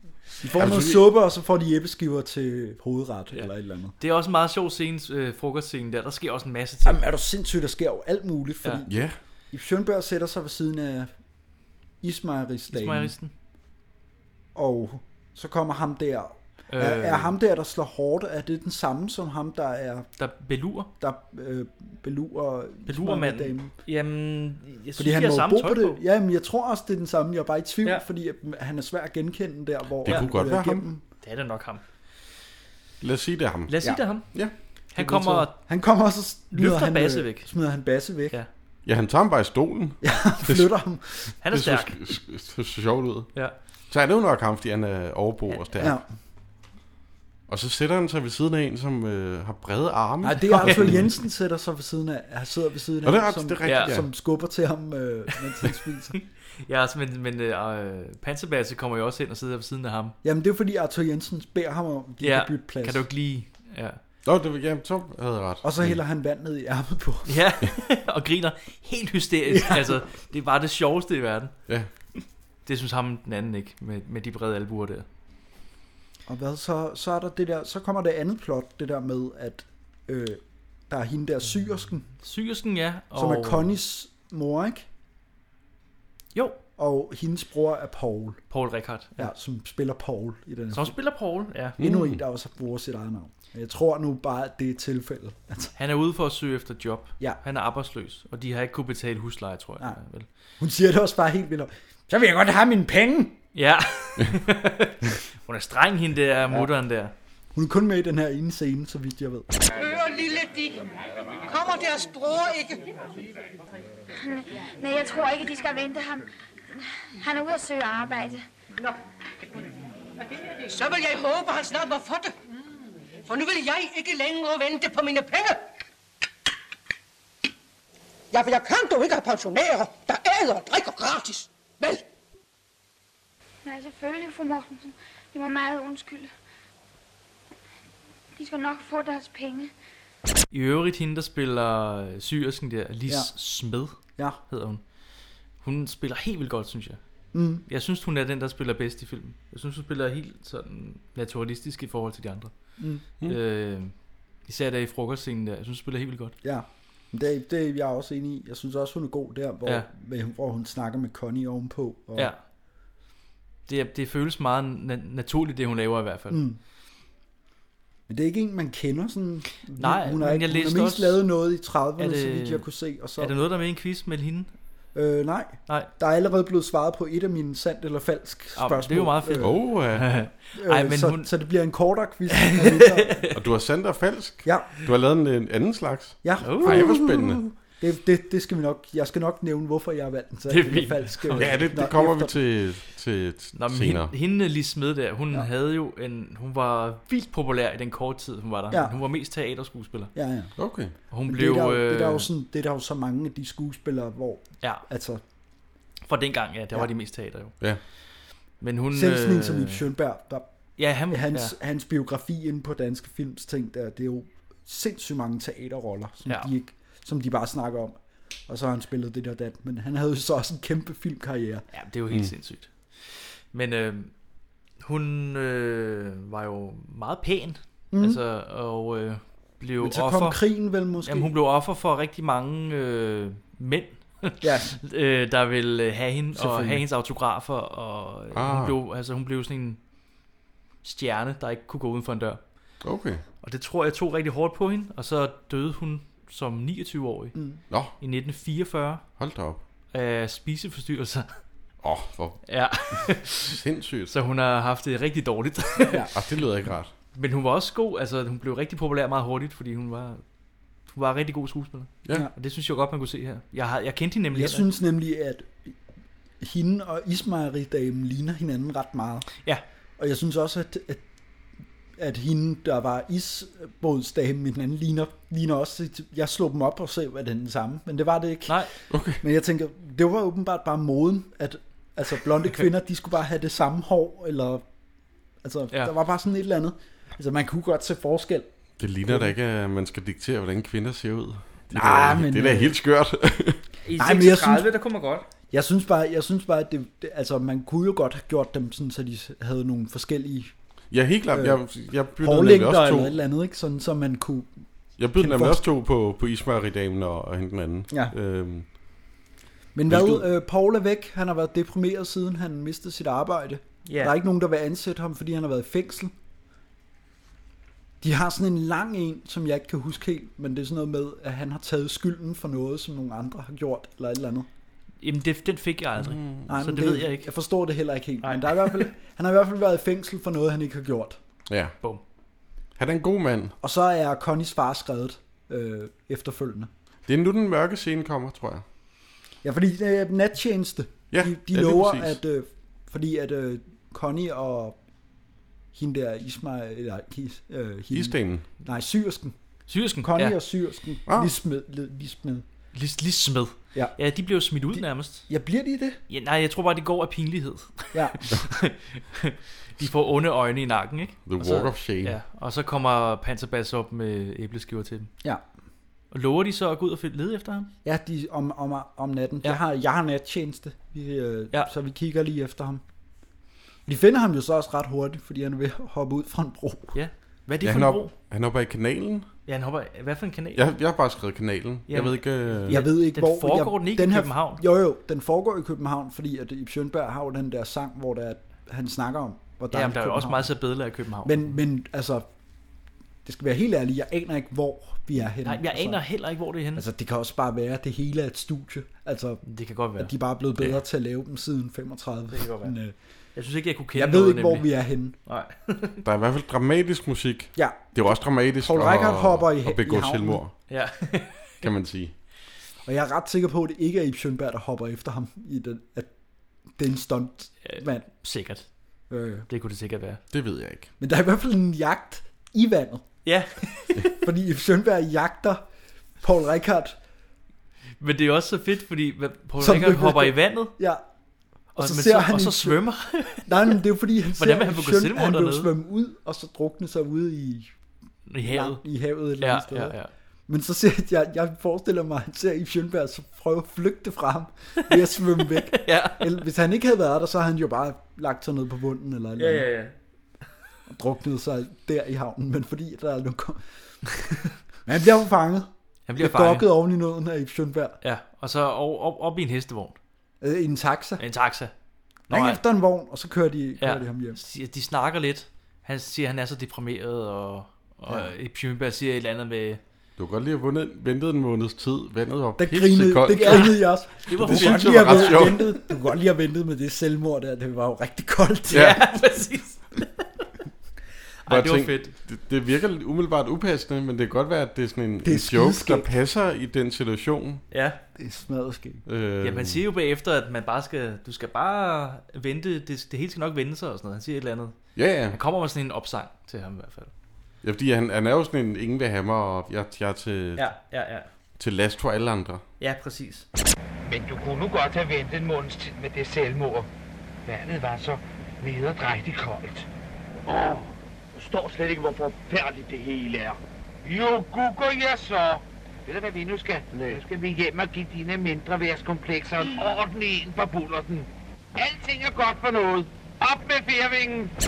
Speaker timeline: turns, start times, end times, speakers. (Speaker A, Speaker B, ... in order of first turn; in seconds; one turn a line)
Speaker A: 0.4-3.9
Speaker B: 0.6-1.0
Speaker C: 4.0-7.0
Speaker A: 6.8-8.9
Speaker B: 8.9-9.2
Speaker A: 9.5-11.1
Speaker A: 12.0-13.1
Speaker C: 12.7-13.3
Speaker A: 14.5-20.1
Speaker C: 16.7-17.3
Speaker C: 20.2-20.9
Speaker A: 21.0-23.7
Speaker C: 22.9-26.0
Speaker A: 25.0-31.0
Speaker B: 30.0-30.8
Speaker C: 31.2-31.8
Speaker B: 33.0-34.5
Speaker C: 33.7-34.3
Speaker C: 34.9-35.6
Speaker A: 35.5-38.4
Speaker C: 36.5-37.5
Speaker B: 38.9-40.7
Speaker A: 40.0-41.3
Speaker B: 41.3-43.3
Speaker C: 41.4-41.9
Speaker B: 43.9-46.0
Speaker A: 45.8-46.0
Speaker B: 47.5-51.1
Speaker A: 50.2-56.1
Speaker C: 50.5-51.0
Speaker B: 53.0-54.1
Speaker C: 53.6-53.9
Speaker C: 56.6-60.1
Speaker A: 60.2-63.0
Speaker C: 62.2-64.0
Speaker B: 64.2-66.0
Speaker A: 65.6-67.5
Speaker C: 67.3-71.5
Speaker A: 69.5-70.0
Speaker C: 72.7-75.0
Speaker A: 76.3-82.0
Speaker C: 82.2-83.7
Speaker A: 83.1-84.8
Speaker C: 86.3-86.6
Speaker A: 86.8-88.4
Speaker C: 88.5-89.3
Speaker A: 89.2-90.9
Speaker C: 90.7-91.8
Speaker A: 91.8-95.7
Speaker B: 91.8-92.2
Speaker C: 95.8-100.3
Speaker A: 100.6-103.4
Speaker C: 103.5-107.1
Speaker A: 107.5-109.5
Speaker D: 109.8-110.8
Speaker D: 111.5-112.8
Speaker E: 114.1-118.4
Speaker D: 120.6-122.3
Speaker D: 123.3-125.6
Speaker D: 128.3-132.0
Speaker E: 133.6-136.3
Speaker E: 138.4-139.7
Speaker C: 140.5-144.0
Speaker C: 144.5-144.8
Speaker C: 145.6-147.0
Speaker A: 147.3-147.6
Speaker C: 147.7-152.5
Speaker A: 152.8-153.0
Speaker C: 153.2-153.9
Speaker C: 154.4-156.3
Speaker A: 156.4-162.3
Speaker C: 163.7-166.4
Speaker A: 166.3-166.6
Speaker A: 168.1-173.3
Speaker C: 169.8-171.2
Speaker C: 172.0-172.6
Speaker C: 173.2-174.5
Speaker A: 174.9-179.5
Speaker C: 178.6-181.3
Speaker B: 179.4-180.1
Speaker A: 180.6-183.2
Speaker C: 182.3-183.4
Speaker B: 183.3-187.4
Speaker A: 184.4-184.7
Speaker A: 186.2-192.3
Speaker C: 186.4-186.8
Speaker C: 190.5-191.6
Speaker B: 191.4-194.1
Speaker C: 193.5-200.1
Speaker A: 200.1-200.5
Speaker B: 200.6-200.9
Speaker C: 201.1-202.3
Speaker A: 201.3-205.2
Speaker C: 206.0-207.5
Speaker C: 208.6-209.8
Speaker A: 208.9-210.5
Speaker C: 210.8-211.5
Speaker A: 211.1-221.6
Speaker C: 221.7-224.1
Speaker C: 224.8-230.4
Speaker A: 227.9-228.2
Speaker A: 229.8-231.3
Speaker C: 231.0-239.8
Speaker A: 234.4-234.8
Speaker A: 236.3-236.8
Speaker B: 238.3-238.7
Speaker C: 240.8-242.4
Speaker B: 242.8-243.2
Speaker C: 243.4-247.3
Speaker A: 247.3-247.6
Speaker C: 248.0-249.0
Speaker B: 249.2-249.6
Speaker C: 249.9-251.4
Speaker B: 251.8-252.4
Speaker C: 252.5-253.6
Speaker B: 253.0-254.1
Speaker C: 254.1-256.1
Speaker A: 255.8-256.1
Speaker B: 256.1-256.9
Speaker C: 257.1-260.2
Speaker C: 260.9-264.6
Speaker A: 264.3-265.8
Speaker A: 266.4-269.3
Speaker A: 270.0-271.0
Speaker A: 272.0-278.6
Speaker B: 278.9-279.2
Speaker A: 279.2-284.6
Speaker A: 285.4-288.5
Speaker B: 288.8-293.6
Speaker A: 289.1-289.3
Speaker A: 291.7-292.8
Speaker C: 293.8-295.3
Speaker A: 293.9-294.7
Speaker A: 295.5-300.5
Speaker B: 300.9-303.1
Speaker A: 301.3-301.6
Speaker A: 302.2-304.5
Speaker B: 305.0-308.6
Speaker A: 305.2-305.6
Speaker A: 309.7-316.1
Speaker B: 309.9-310.2
Speaker C: 313.9-314.1
Speaker A: 318.0-324.5
Speaker C: 325.0-327.2
Speaker B: 326.0-326.4
Speaker A: 326.5-331.2
Speaker C: 328.2-328.9
Speaker B: 331.5-331.7
Speaker B: 332.8-333.5
Speaker A: 333.6-336.7
Speaker B: 337.1-338.6
Speaker A: 339.4-344.8
Speaker B: 341.1-342.2
Speaker A: 345.7-349.3
Speaker B: 347.9-348.4
Speaker C: 349.7-350.4
Speaker A: 350.0-352.4
Speaker C: 352.7-355.2
Speaker A: 354.7-356.0
Speaker C: 356.1-365.1
Speaker A: 357.9-358.2
Speaker B: 361.2-362.2
Speaker C: 366.1-367.7
Speaker A: 367.8-372.8
Speaker A: 373.9-376.9
Speaker C: 376.9-378.1
Speaker B: 377.6-379.3
Speaker C: 379.5-380.6
Speaker B: 380.6-382.8
Speaker C: 381.9-384.6
Speaker A: 382.7-390.5
Speaker C: 389.7-391.6
Speaker A: 391.2-392.2
Speaker A: 393.2-396.0
Speaker C: 395.4-396.8
Speaker A: 396.7-399.4
Speaker C: 399.4-400.1
Speaker A: 400.0-402.9
Speaker C: 402.3-402.7
Speaker C: 403.4-404.7
Speaker A: 403.9-405.1
Speaker C: 405.2-406.0
Speaker B: 406.0-410.5
Speaker A: 407.6-408.0
Speaker A: 408.6-410.4
Speaker C: 410.7-411.6
Speaker B: 411.6-412.1
Speaker A: 412.8-416.1
Speaker A: 416.8-418.0
Speaker C: 417.6-418.6
Speaker A: 419.1-419.5
Speaker C: 419.5-420.2
Speaker B: 420.3-420.9
Speaker A: 421.0-423.1
Speaker C: 423.2-424.2
Speaker A: 424.1-425.6
Speaker A: 426.2-426.9
Speaker C: 428.0-430.7
Speaker A: 429.6-431.0
Speaker A: 431.8-432.8
Speaker C: 431.8-433.7
Speaker A: 433.4-437.7
Speaker C: 434.4-435.7
Speaker C: 438.3-438.8
Speaker A: 438.4-439.9
Speaker C: 439.4-440.1
Speaker A: 440.5-449.7
Speaker C: 445.7-446.4
Speaker C: 449.4-449.9
Speaker A: 450.9-453.6
Speaker A: 454.9-458.0
Speaker C: 456.1-456.7
Speaker C: 458.0-460.0
Speaker A: 460.4-461.2
Speaker C: 461.2-461.7
Speaker C: 462.3-462.6
Speaker A: 462.3-464.4
Speaker C: 463.8-469.8
Speaker B: 470.2-473.7
Speaker A: 472.6-478.9
Speaker C: 473.3-475.6
Speaker B: 474.4-475.7
Speaker C: 478.7-480.3
Speaker B: 478.7-479.0
Speaker C: 481.4-482.1
Speaker B: 481.5-487.6
Speaker A: 485.2-486.1
Speaker C: 487.7-488.0
Speaker A: 488.2-489.0
Speaker B: 489.1-489.8
Speaker C: 489.4-494.8
Speaker B: 494.9-495.4
Speaker C: 495.3-497.1
Speaker B: 497.6-500.7
Speaker C: 500.6-501.3
Speaker B: 501.6-502.6
Speaker C: 502.8-503.5
Speaker F: 504.0-506.9
Speaker F: 507.4-509.9
Speaker F: 510.4-524.5